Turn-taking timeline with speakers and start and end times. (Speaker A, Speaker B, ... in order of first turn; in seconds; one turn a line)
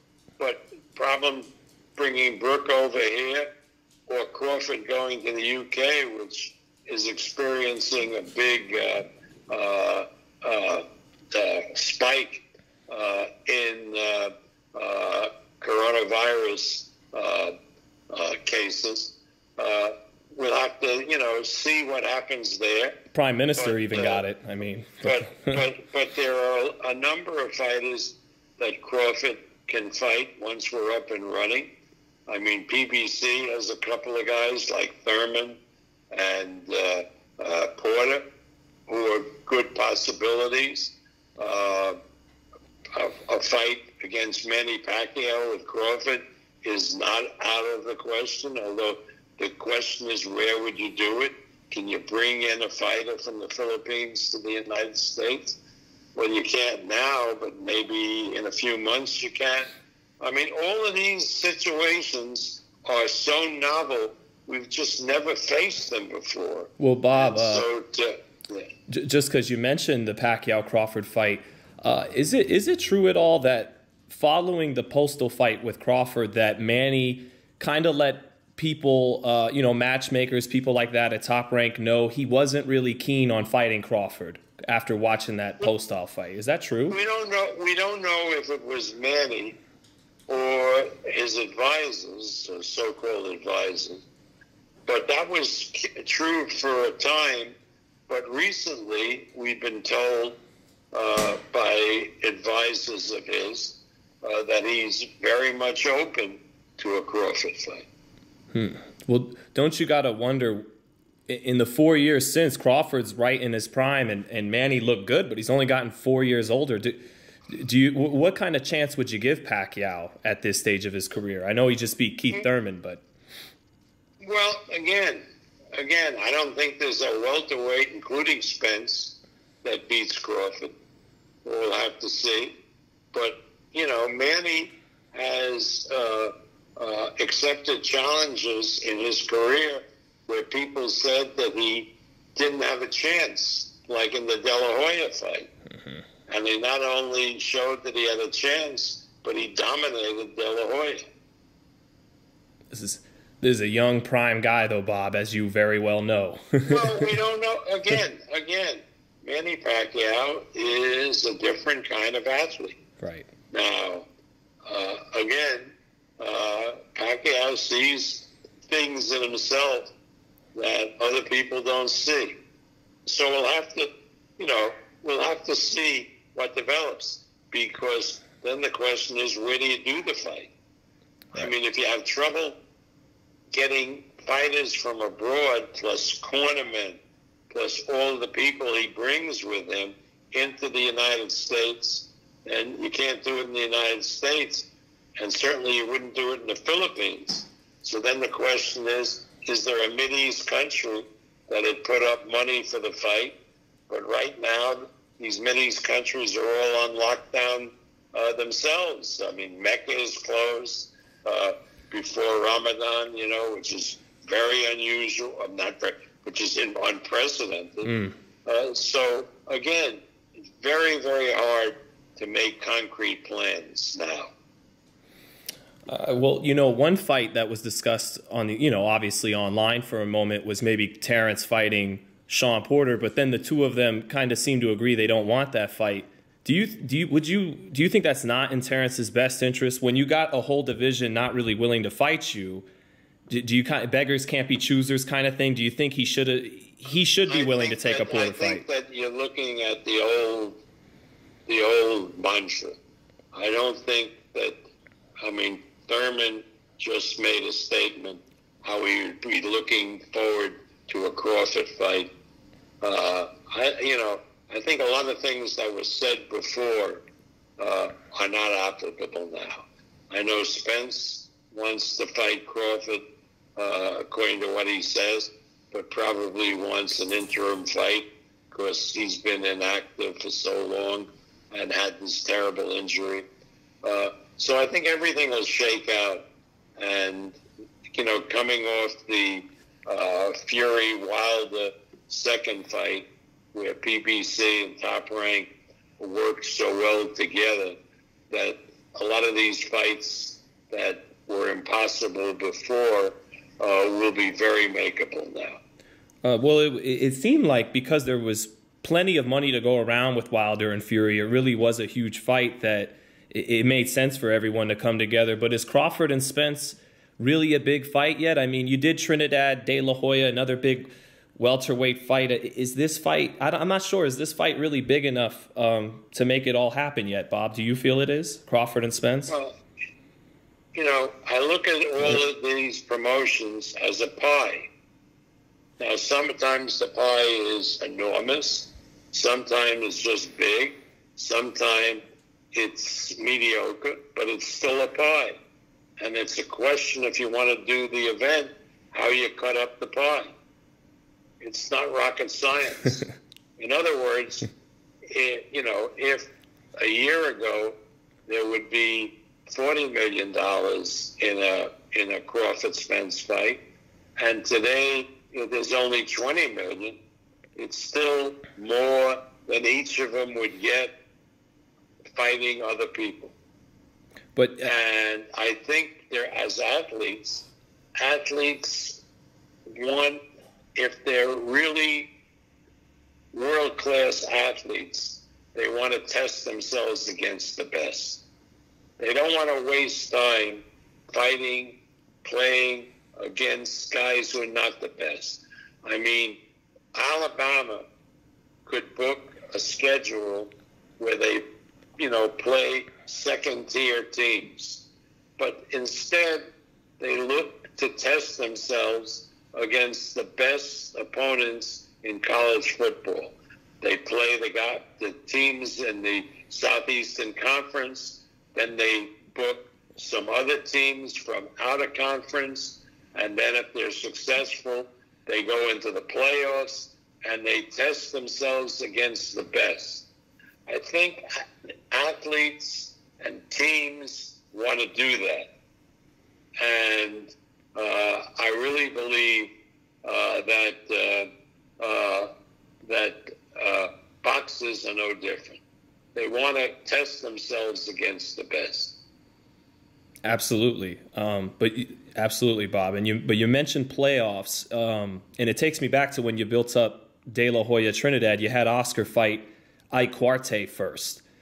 Speaker A: 0.4-3.5
Speaker A: 4.1-17.5
Speaker A: 18.1-23.0
Speaker B: 23.1-25.6
Speaker A: 23.5-24.2
Speaker A: 25.0-31.7
Speaker A: 32.3-35.6
Speaker A: 36.1-38.2
Speaker A: 38.9-42.0
Speaker A: 42.9-55.6
Speaker A: 56.1-59.7
Speaker A: 60.2-68.7
Speaker B: 66.8-67.7
Speaker B: 68.9-87.0
Speaker A: 86.9-89.6
Speaker A: 90.3-94.0
Speaker A: 94.8-97.5
Speaker A: 98.1-100.4
Speaker A: 100.9-107.9
Speaker B: 108.5-110.7
Speaker B: 111.3-123.0
Speaker A: 124.2-125.2
Speaker A: 125.7-130.7
Speaker A: 131.4-132.5
Speaker A: 133.1-145.5
Speaker A: 146.3-151.0
Speaker B: 152.7-157.1
Speaker A: 156.7-162.8
Speaker B: 163.0-163.3
Speaker A: 163.5-164.1
Speaker A: 164.7-169.9
Speaker A: 170.5-172.4
Speaker A: 173.1-180.5
Speaker A: 181.3-182.6
Speaker A: 183.5-203.4
Speaker A: 203.9-220.0
Speaker B: 217.8-218.1
Speaker A: 220.6-224.3
Speaker B: 225.9-242.7
Speaker B: 243.3-248.6
Speaker A: 247.3-250.6
Speaker A: 251.5-252.8
Speaker A: 253.3-254.6
Speaker A: 255.2-262.1
Speaker A: 262.8-267.1
Speaker A: 267.6-273.0
Speaker A: 273.6-283.2
Speaker A: 283.8-286.2
Speaker A: 286.8-287.4
Speaker A: 287.9-297.8
Speaker A: 298.3-305.6
Speaker B: 306.2-329.3
Speaker A: 329.3-329.6
Speaker A: 330.7-334.7
Speaker A: 335.8-345.4
Speaker A: 346.0-350.3
Speaker A: 351.4-353.0
Speaker A: 353.6-354.5
Speaker A: 355.1-363.6
Speaker A: 364.2-367.0
Speaker A: 367.6-371.0
Speaker A: 372.1-373.3
Speaker B: 374.3-374.7
Speaker A: 374.6-377.4
Speaker A: 378.0-379.0
Speaker A: 379.7-380.2
Speaker A: 380.7-382.1
Speaker A: 383.3-388.2
Speaker A: 389.0-396.4
Speaker A: 396.9-397.8
Speaker A: 398.6-401.4
Speaker A: 402.0-404.9
Speaker A: 405.4-406.4
Speaker A: 407.0-430.1
Speaker A: 430.7-435.5
Speaker A: 436.6-439.5
Speaker A: 440.0-441.3
Speaker A: 441.8-442.3
Speaker A: 442.8-445.6
Speaker A: 446.1-449.0
Speaker B: 450.2-461.2